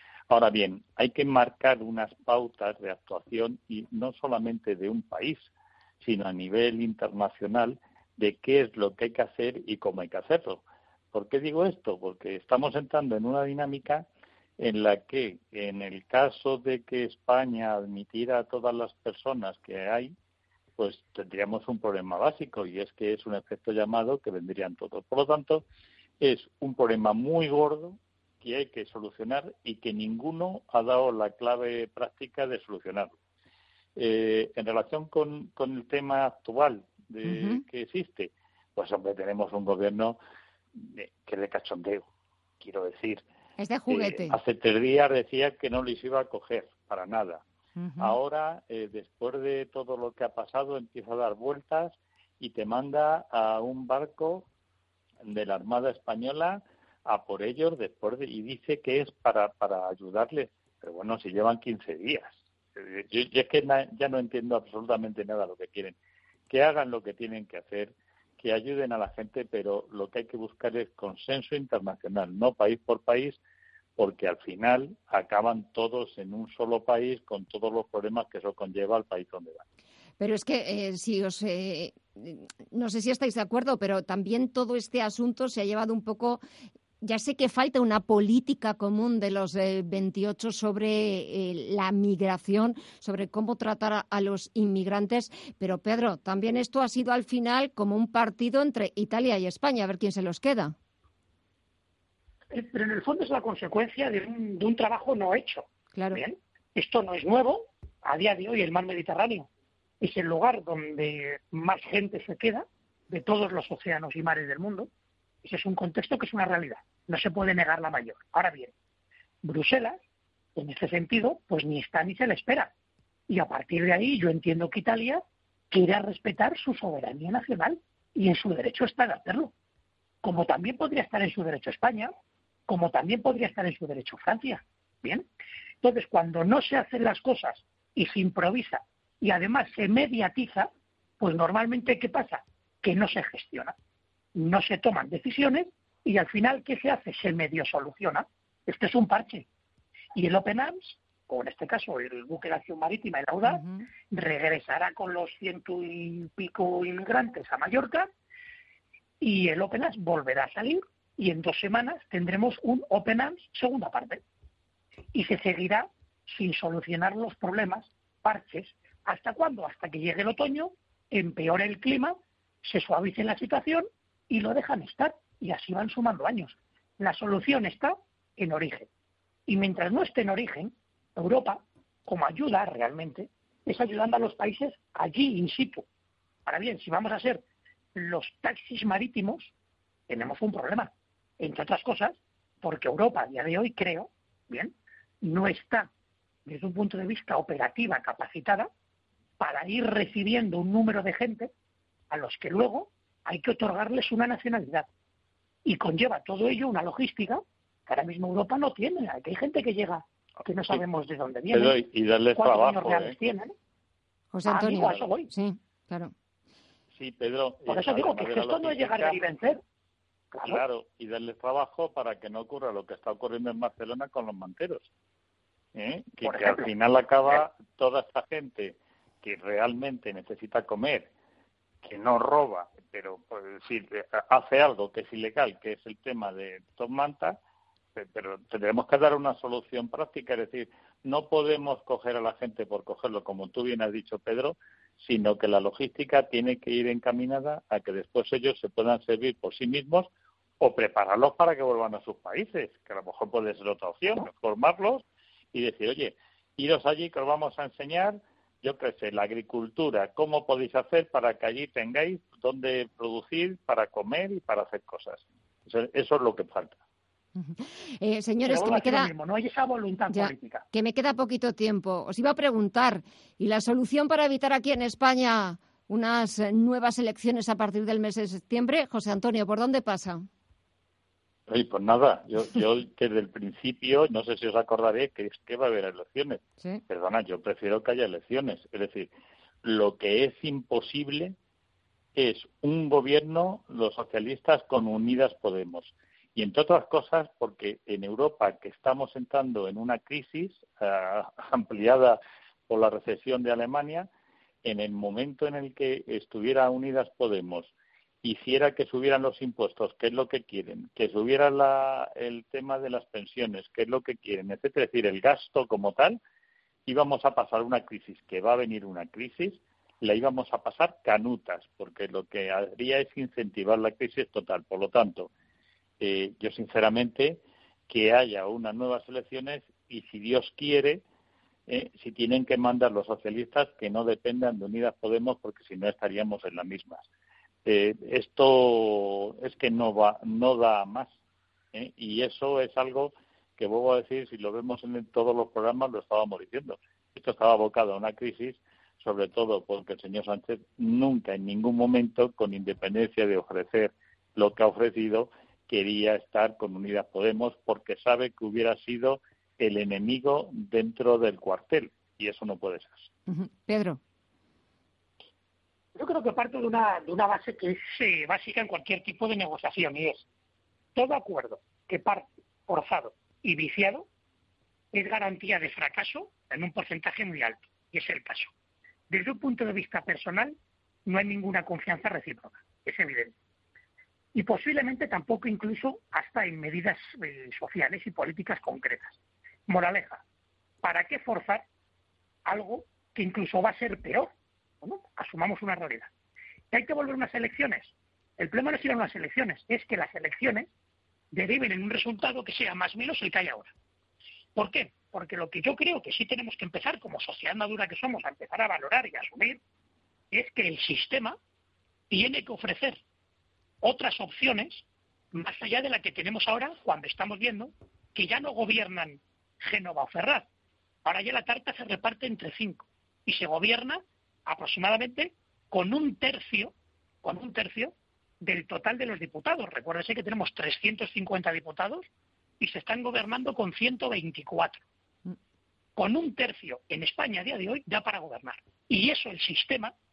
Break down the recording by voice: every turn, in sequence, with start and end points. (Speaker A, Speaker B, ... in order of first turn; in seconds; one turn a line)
Speaker A: 0.3-14.1
Speaker A: 14.6-20.1
Speaker A: 20.8-25.6
Speaker A: 26.2-33.1
Speaker A: 34.0-40.2
Speaker B: 37.2-37.6
Speaker A: 40.8-42.1
Speaker A: 42.6-43.2
Speaker B: 43.6-44.4
Speaker A: 43.9-47.4
Speaker B: 47.8-48.1
Speaker A: 48.0-54.5
Speaker A: 55.2-66.0
Speaker A: 66.5-73.4
Speaker A: 74.0-79.6
Speaker B: 80.2-86.4
Speaker B: 87.0-100.8
Speaker C: 102.5-109.5
Speaker B: 106.0-106.2
Speaker C: 110.0-114.9
Speaker C: 115.4-118.7
Speaker C: 119.4-120.0
Speaker C: 120.6-122.7
Speaker C: 123.3-129.5
Speaker C: 130.2-132.1
Speaker C: 132.7-135.3
Speaker C: 135.8-143.8
Speaker C: 144.3-149.5
Speaker C: 150.2-158.1
Speaker C: 159.2-164.2
Speaker C: 165.1-178.9
Speaker C: 179.5-185.8
Speaker C: 186.5-187.4
Speaker C: 187.9-189.5
Speaker C: 190.1-195.9
Speaker C: 196.5-198.7
Speaker C: 199.4-201.5
Speaker C: 202.1-204.9
Speaker C: 205.7-213.5
Speaker A: 211.5-213.2
Speaker B: 214.3-216.1
Speaker C: 214.4-215.3
Speaker A: 217.0-219.2
Speaker C: 217.7-219.6
Speaker C: 220.3-220.6
Speaker A: 220.4-224.9
Speaker A: 225.8-231.1
Speaker C: 226.2-226.7
Speaker A: 231.8-237.4
Speaker A: 238.0-250.1
Speaker A: 250.6-266.8
Speaker B: 267.4-269.1
Speaker C: 268.4-270.6
Speaker B: 270.1-280.3
Speaker A: 281.5-289.1
Speaker A: 289.6-291.4
Speaker A: 292.2-304.1
Speaker A: 304.6-307.7
Speaker A: 308.2-316.2
Speaker A: 316.9-325.3
Speaker A: 326.0-331.0
Speaker A: 331.7-337.1
Speaker A: 337.7-341.1
Speaker A: 341.7-363.1
Speaker B: 363.3-364.0
Speaker C: 366.0-370.2
Speaker C: 370.9-374.1
Speaker C: 374.9-378.5
Speaker C: 379.1-383.3
Speaker C: 384.4-389.2
Speaker C: 389.7-390.2
Speaker C: 390.8-391.6
Speaker C: 392.5-394.3
Speaker C: 394.8-396.1
Speaker C: 396.7-400.7
Speaker C: 401.3-403.7
Speaker C: 404.6-409.6
Speaker C: 410.3-411.4
Speaker C: 412.1-413.0
Speaker C: 413.8-420.5
Speaker C: 421.1-432.1
Speaker C: 432.6-434.8
Speaker C: 436.0-439.9